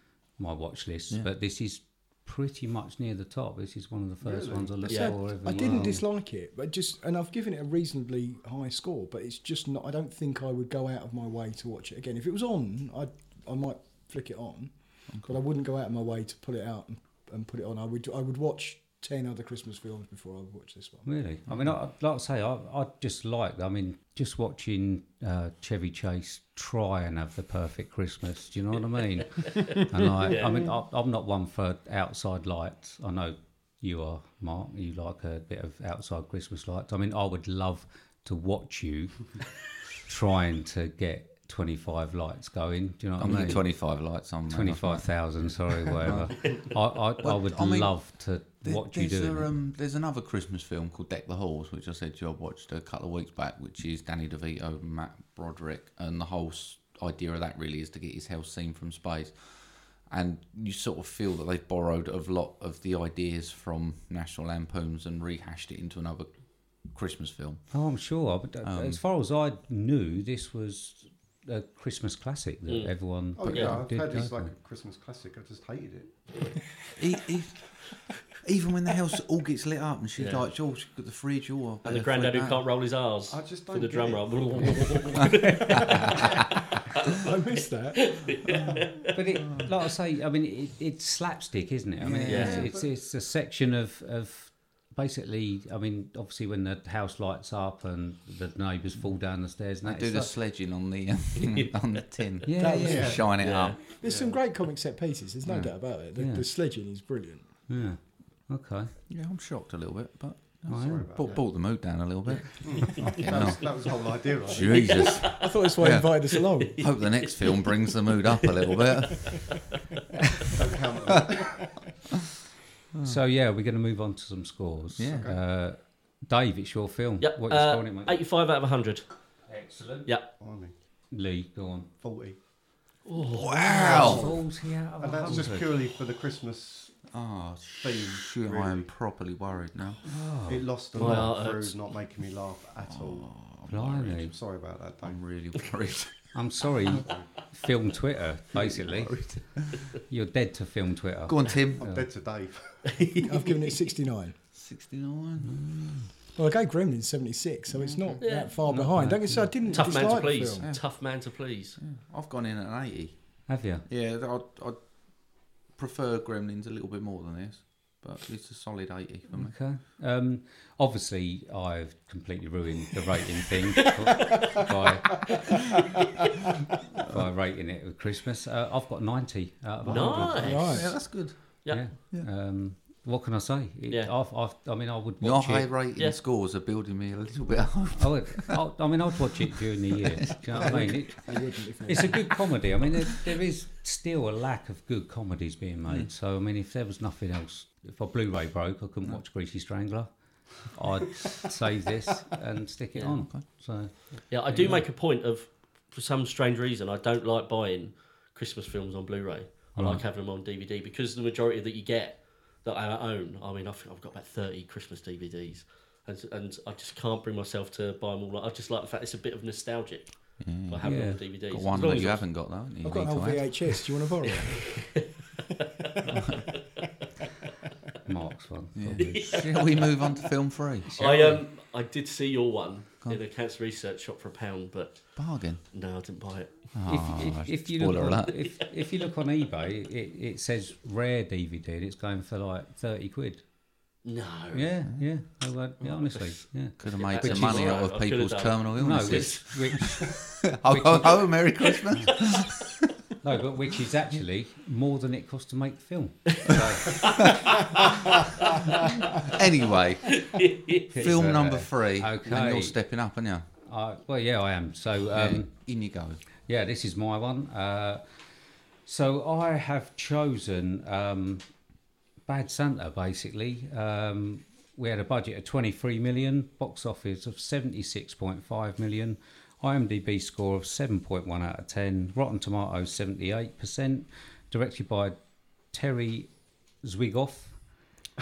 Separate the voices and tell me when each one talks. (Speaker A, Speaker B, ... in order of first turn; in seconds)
Speaker A: 0.4-6.0, 21.1-39.4, 40.0-49.5, 67.7-74.5, 89.1-100.3, 102.5-103.2, 106.2-106.5, 107.7-108.9, 110.7-111.1, 123.0-128.2, 129.5-130.2, 131.1-131.9, 133.7-135.8, 140.0-141.3, 143.7-144.3, 146.3-149.6, 150.1-152.1, 155.4-156.1, 158.6-160.2, 163.5-163.8, 169.3-175.4, 177.0-185.9, 187.9-200.1, 200.6-204.9, 209.7-210.0, 220.8-221.2, 228.1-229.9, 230.9-231.4, 236.8-243.4, 244.5-247.9, 248.7-252.1, 253.2-257.4, 260.9-262.8, 263.6-265.7, 266.5-268.0, 268.8-271.5, 272.2-287.6
Speaker B: 4.2-5.7, 73.3-76.5, 83.3-85.2, 92.2-92.9, 102.9-103.4, 104.0-104.4, 110.7-111.5, 112.6-115.2, 120.5-121.7, 125.0-125.4, 130.4-130.8, 132.0-132.4, 134.1-134.4, 135.0-137.2, 137.8-138.9, 140.4-143.5, 144.3-145.4, 147.0-147.5, 148.5-149.6, 151.8-153.0
Speaker C: 4.8-5.1, 29.4-30.7, 72.7-73.8, 80.2-80.4, 81.8-85.7, 88.0-89.1, 92.3-92.6, 103.4-103.8, 115.0-115.5, 116.6-117.4, 127.2-129.2, 133.0-134.3, 140.9-141.7, 152.8-153.4, 158.2-158.6, 159.7-161.8, 174.2-174.6, 179.8-180.9, 181.6-182.0, 202.9-203.4, 204.3-222.2, 224.2-225.0, 229.0-230.0, 230.9-236.7, 238.4-239.1, 244.0-244.7, 245.8-250.0, 257.0-257.4, 260.2-261.0
Speaker D: 4.9-21.1, 87.2-88.2, 102.6-107.5, 115.3-116.9, 153.2-154.3, 156.3-160.7, 180.3-181.0, 190.6-192.3, 222.8-225.1
Speaker E: 21.5-21.8, 43.2-67.9, 68.6-69.0, 77.0-82.6, 92.0-92.7, 99.8-103.8, 105.5-105.7, 109.1-119.4, 122.9-123.2, 125.0-125.3, 133.3-134.3, 137.1-140.0, 142.9-144.3, 145.0-146.3, 151.3-151.8, 154.5-155.6, 157.7-158.2, 160.6-169.6, 179.9-182.3, 185.2-188.6, 190.2-191.0, 220.4-223.8, 228.8-230.9, 235.2-235.6, 236.7-238.4, 246.8-252.7, 259.3-260.2, 260.9-263.4, 265.0-266.2